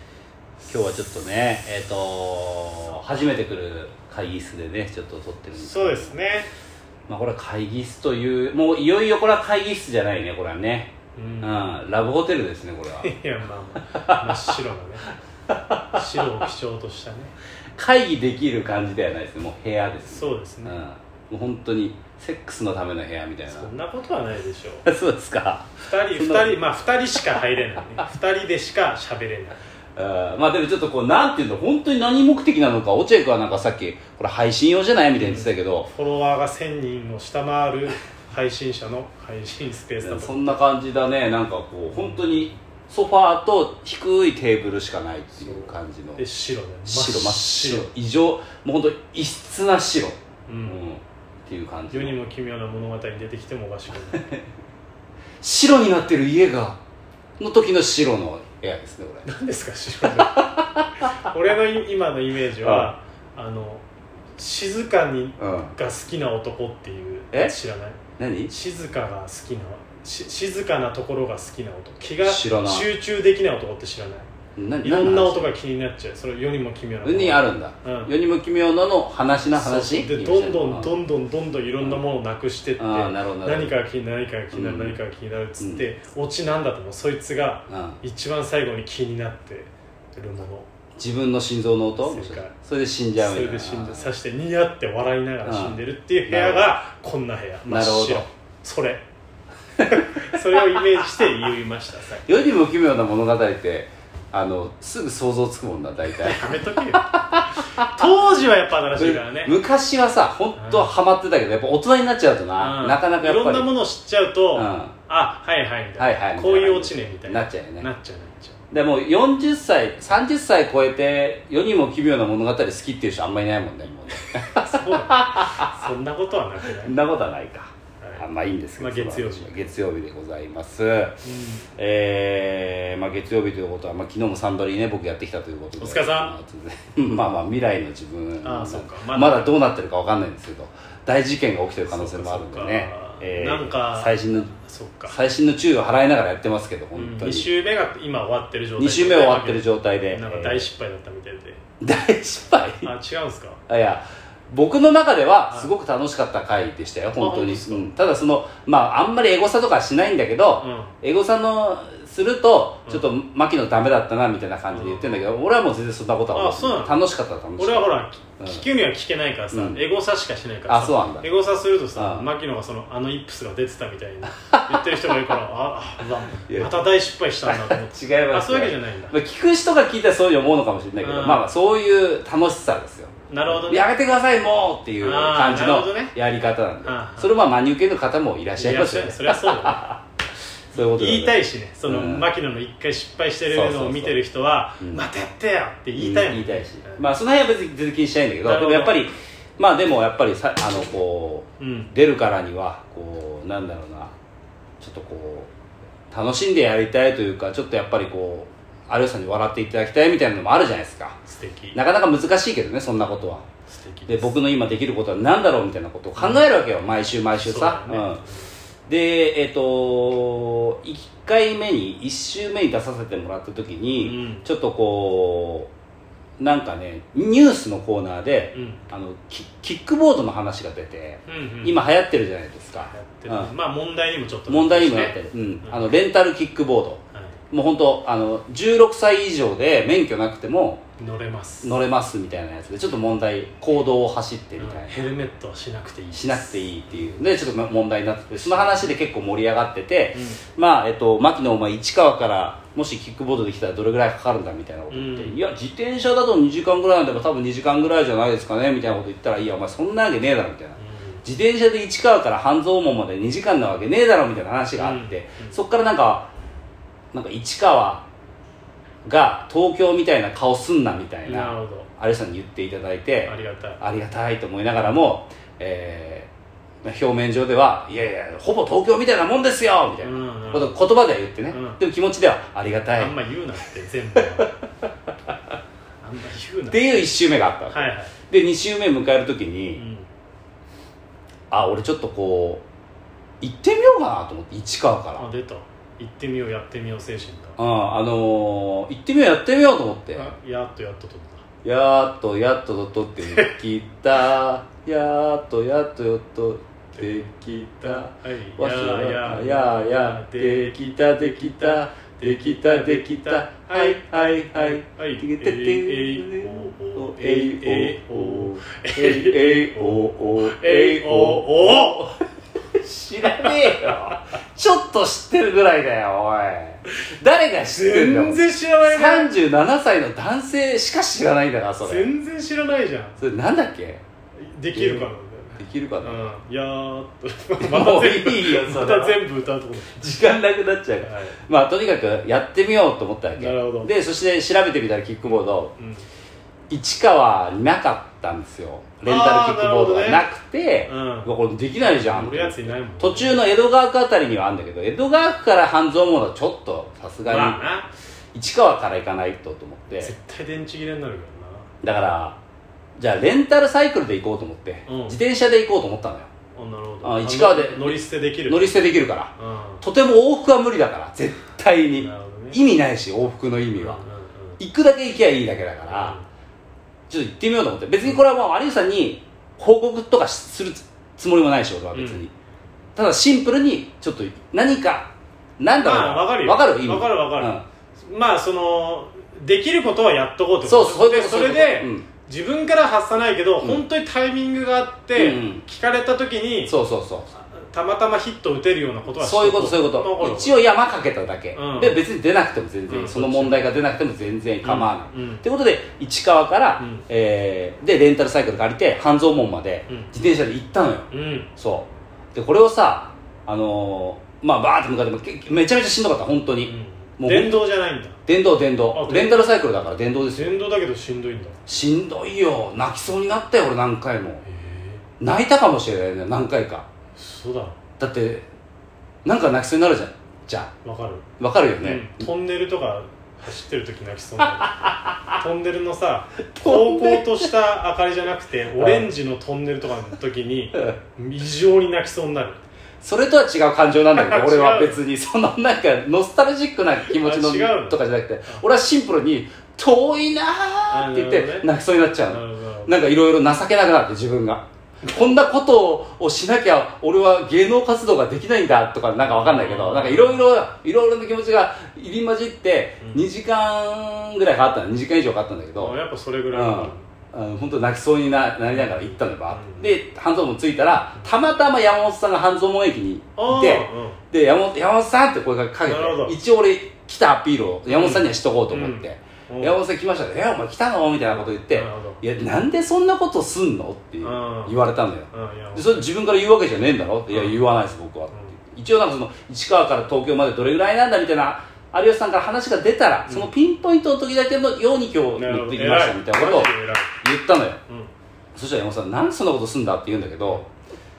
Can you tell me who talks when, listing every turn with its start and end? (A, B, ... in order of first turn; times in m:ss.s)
0:00.6-0:06.2 A
0:05.6-0:06.5 B
0:07.1-0:13.1 A
0:11.1-0:11.7 B
0:13.0-0:15.1 B
0:14.0-0:14.4 A
0:15.5-0:16.0 A
0:15.9-0:17.4 B
0:17.8-0:23.7 A
0:20.1-0:20.8 B
0:23.5-0:24.9 B
0:24.9-0:26.8 A
0:25.8-0:29.6 B
0:30.0-0:35.9 A
0:35.2-0:40.6 B
0:40.0-0:46.2 A
0:41.9-0:42.4 B
0:45.4-0:47.9 B
0:46.9-0:52.2 A
0:50.5-0:50.8 B
0:51.9-0:54.3 B
0:54.1-0:54.4 A
0:55.4-0:56.8 A
0:57.4-0:59.3 A
0:59.2-1:00.6 B
1:00.1-1:01.1 A
1:01.1-1:03.8 B
1:02.6-1:02.9 A
1:04.4-1:08.0 B
1:05.4-1:05.8 A
1:08.2-1:08.5 A
1:08.5-1:14.3 B
1:12.2-1:12.9 A
1:14.6-1:15.6 A
1:14.8-1:18.1 B
1:17.0-1:21.0 A
1:19.5-1:30.7 B
1:22.8-1:23.7 A
1:24.5-1:25.0 A
1:25.6-1:25.8 A
1:27.7-1:28.0 A
1:31.0-1:34.1 A
1:32.0-1:32.6 B
1:33.2-1:39.0 B
1:35.4-1:36.7 A
1:37.6-1:38.2 A
1:39.8-1:42.3 B
1:42.3-1:47.9 A
1:46.2-1:49.6 B
1:48.9-1:53.7 A
1:50.6-1:50.9 B
1:52.6-1:58.6 B
1:54.6-1:55.0 A
1:56.0-1:57.9 A
1:58.7-2:05.7 A
2:04.5-2:07.0 B
2:06.8-2:11.2 A
2:08.8-2:09.7 B
2:11.2-2:11.6 B
2:11.8-2:24.5 A
2:15.8-2:16.3 B
2:18.4-2:19.6 B
2:21.9-2:25.2 B
2:25.1-2:27.5 A
2:27.0-2:31.6 B
2:28.8-2:30.7 A
2:31.8-2:32.9 A
2:32.8-2:33.6 B
2:33.7-2:48.6 A
2:37.2-2:37.9 B
2:40.6-2:41.0 B
2:44.7-2:45.3 B
2:46.3-2:47.0 B
2:47.6-2:59.2 B
2:49.5-2:49.8 A
2:50.7-2:51.3 A
2:52.0-2:52.3 A
2:54.4-2:55.2 A
2:56.5-2:56.8 A
2:57.4-3:10.0 A
3:01.0-3:01.4 B
3:03.3-3:03.9 B
3:05.0-3:06.2 B
3:06.8-3:07.4 B
3:08.6-3:09.9 B
3:10.7-3:12.3 A
3:10.8-3:17.1 B
3:13.5-3:14.2 A
3:14.8-3:15.0 A
3:16.0-3:24.1 A
3:18.4-3:19.0 B
3:21.6-3:21.9 B
3:24.8-3:25.5 A
3:26.1-3:31.2 A
3:31.3-3:31.8 B
3:31.8-3:33.4 A
3:33.7-3:34.3 B
3:34.1-3:38.2 A
3:36.2-3:36.5 B
3:37.4-3:38.5 B
3:38.9-3:45.7 A
3:44.0-3:44.5 B
3:46.4-3:53.5 A
3:48.5-3:48.8 B
3:51.3-3:51.8 B
3:52.9-3:55.9 B
3:54.5-4:00.8 A
3:57.1-3:57.4 B
4:01.0-4:01.8 B
4:01.6-4:05.1 A
4:04.6-4:07.2 B
4:06.1-4:26.3 A
4:08.3-4:08.9 B
4:10.1-4:10.4 B
4:14.9-4:15.4 B
4:20.8-4:21.2 B
4:24.8-4:25.6 B
4:27.1-4:28.1 A
4:29.0-4:36.3 A
4:31.2-4:31.9 B
4:33.2-4:33.8 B
4:36.8-4:43.2 A
4:40.0-4:40.8 B
4:41.5-4:41.8 B
4:43.0-4:44.5 B
4:46.0-4:47.0 B
4:46.7-4:49.8 A
4:47.7-4:48.1 B
4:49.8-4:50.1 B
4:51.5-4:52.6 A
4:53.4-4:55.3 A
4:55.2-4:57.6 B
4:57.6-5:00.3 A
5:00.1-5:01.4 B
5:01.6-5:22.2 A
5:03.3-5:03.5 B
5:07.0-5:07.3 B
5:07.8-5:22.2 B
5:22.7-5:32.1 A
5:23.3-5:24.1 B
5:27.7-5:29.4 B
5:31.8-5:33.2 B
5:33.2-5:34.0 A
5:34.4-5:40.1 B
5:34.7-5:36.3 A
5:37.6-5:39.3 A
5:39.9-5:45.7 A
5:41.0-5:41.4 B
5:43.3-5:43.9 B
5:45.2-5:46.0 B
5:46.7-5:57.6 A
5:49.0-5:50.3 B
5:50.9-5:53.4 B
5:57.2-5:57.9 B
5:58.3-6:00.1 A
6:00.0-6:01.7 B
6:01.8-6:02.4 A
6:03.0-6:06.3 A
6:04.9-6:05.2 B
6:06.6-6:09.8 B
6:07.0-6:14.0 A
6:12.0-6:12.6 B
6:13.8-6:14.6 B
6:14.6-6:16.2 A
6:15.9-6:16.3 B
6:17.1-6:22.3 A
6:21.9-6:22.2 B
6:23.0-6:27.6 A
6:25.8-6:36.8 B
6:30.6-6:32.1 A
6:35.2-6:35.6 A
6:36.7-6:37.3 A
6:37.3-6:40.6 B
6:39.2-6:57.7 A
6:41.5-6:42.0 B
6:42.9-6:43.7 B
6:44.6-6:45.4 B
6:46.8-6:47.1 B
6:51.1-6:51.5 B
6:56.6-6:58.2 B
6:58.3-7:00.6 A
6:58.9-6:59.5 B
7:00.3-7:01.6 B
7:01.7-7:04.4 A
7:04.4-7:05.0 B
7:05.2-7:06.9 A
7:07.2-7:07.8 B
7:08.0-7:08.5 A
7:09.2-7:10.7 A
7:10.8-7:11.3 B
7:11.4-7:12.3 A
7:11.8-7:22.6 B
7:16.6-7:17.5 A
7:18.8-7:19.1 A
7:23.0-7:46.0 A
7:24.1-7:25.0 B
7:27.0-7:28.0 B
7:30.9-7:31.7 B
7:32.3-7:33.0 B
7:39.3-7:40.5 B
7:43.0-7:43.3 B
7:45.8-7:47.1 B
7:46.5-8:17.8 A
7:48.7-7:49.9 B
7:53.4-7:54.2 B
7:55.8-7:56.4 B
7:57.9-7:59.8 B
8:01.7-8:02.2 B
8:04.2-8:04.8 B
8:05.3-8:06.1 B
8:07.3-8:07.6 B
8:08.3-8:08.6 B
8:13.3-8:13.5 B
8:15.3-8:17.2 B
8:18.6-8:20.6 A